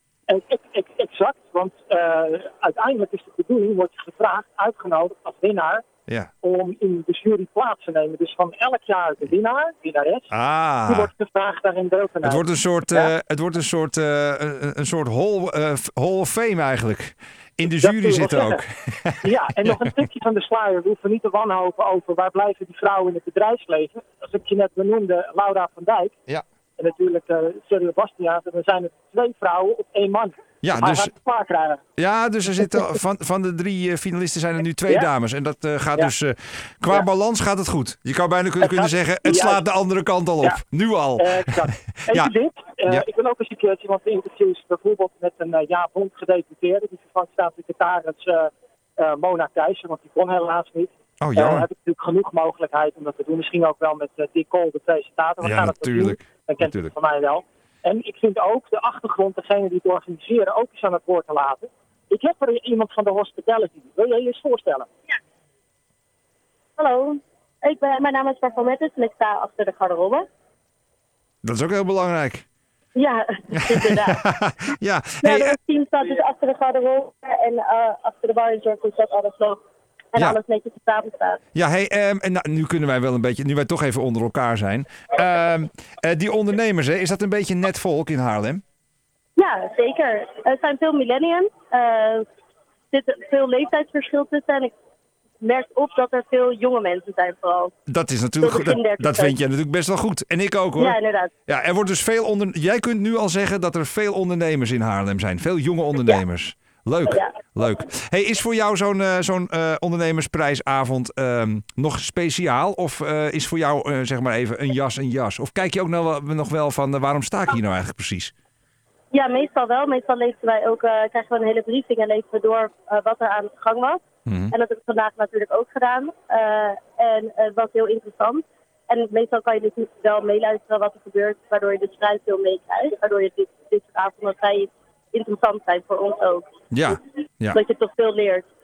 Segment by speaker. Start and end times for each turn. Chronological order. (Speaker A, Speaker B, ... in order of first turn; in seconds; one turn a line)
Speaker A: 0.3-5.8
Speaker A: 6.4-10.3
Speaker B: 10.3-11.1
Speaker A: 10.8-13.1
Speaker B: 12.2-19.2
Speaker A: 17.8-18.6
Speaker A: 19.2-26.2
Speaker A: 26.8-31.8
Speaker B: 30.6-31.1
Speaker B: 32.0-42.3
Speaker A: 38.6-39.6
Speaker A: 41.2-64.9
Speaker B: 51.2-51.6
Speaker B: 55.4-56.9
Speaker C: 66.8-70.2
Speaker B: 71.4-72.4
Speaker C: 72.9-74.3
Speaker B: 73.5-75.5
Speaker C: 75.2-79.6
Speaker C: 80.1-81.4
Speaker B: 81.5-88.6
Speaker C: 89.3-92.2
Speaker C: 92.9-94.7
Speaker C: 95.4-97.7
Speaker B: 97.9-101.0
Speaker C: 98.4-99.4
Speaker C: 100.8-101.3
Speaker B: 101.5-118.3
Speaker C: 119.1-136.5
Speaker B: 124.3-124.5
Speaker B: 136.7-137.6
Speaker C: 137.5-138.5